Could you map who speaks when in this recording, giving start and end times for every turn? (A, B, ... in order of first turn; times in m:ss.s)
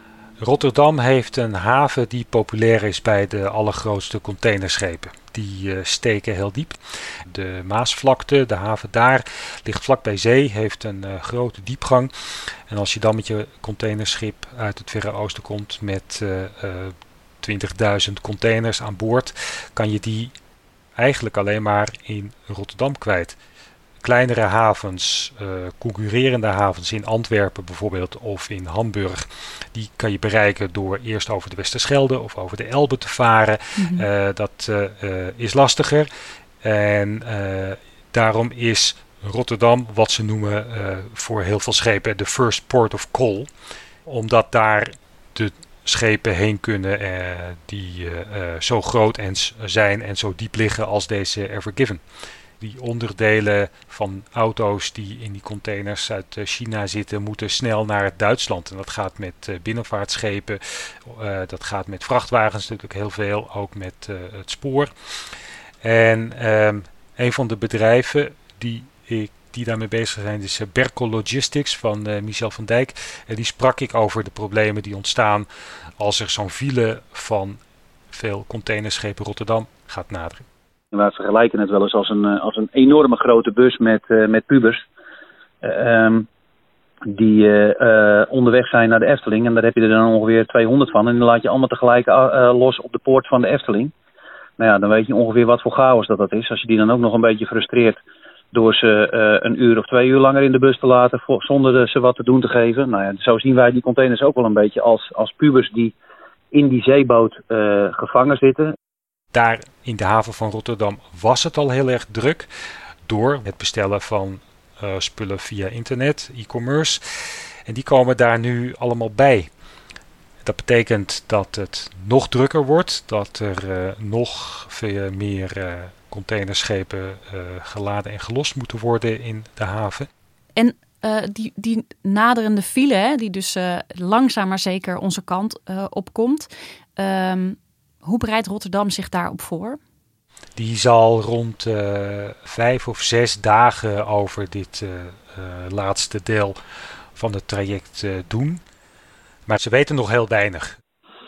0:00.4-0:12.1 A
0:12.7-0:20.3 A
0:21.0-0:23.4 A
0:24.0-0:36.1 A
0:33.8-0:34.0 B
0:36.6-0:43.5 A
0:44.0-0:52.0 A
0:52.6-1:04.9 A
1:05.8-1:15.5 A
1:16.0-1:17.6 A
1:18.1-1:20.4 A
1:20.9-1:24.7 C
1:25.6-1:26.1 C
1:27.1-1:33.9 C
1:34.6-1:38.0 C
1:38.5-1:45.9 C
1:46.5-1:48.7 C
1:49.3-1:52.5 A
1:53.1-1:57.0 A
1:57.7-1:59.5 A
2:00.4-2:10.1 A
2:10.5-2:19.8 B
2:20.6-2:26.6 A
2:27.2-2:28.6 A
2:29.5-2:30.8 A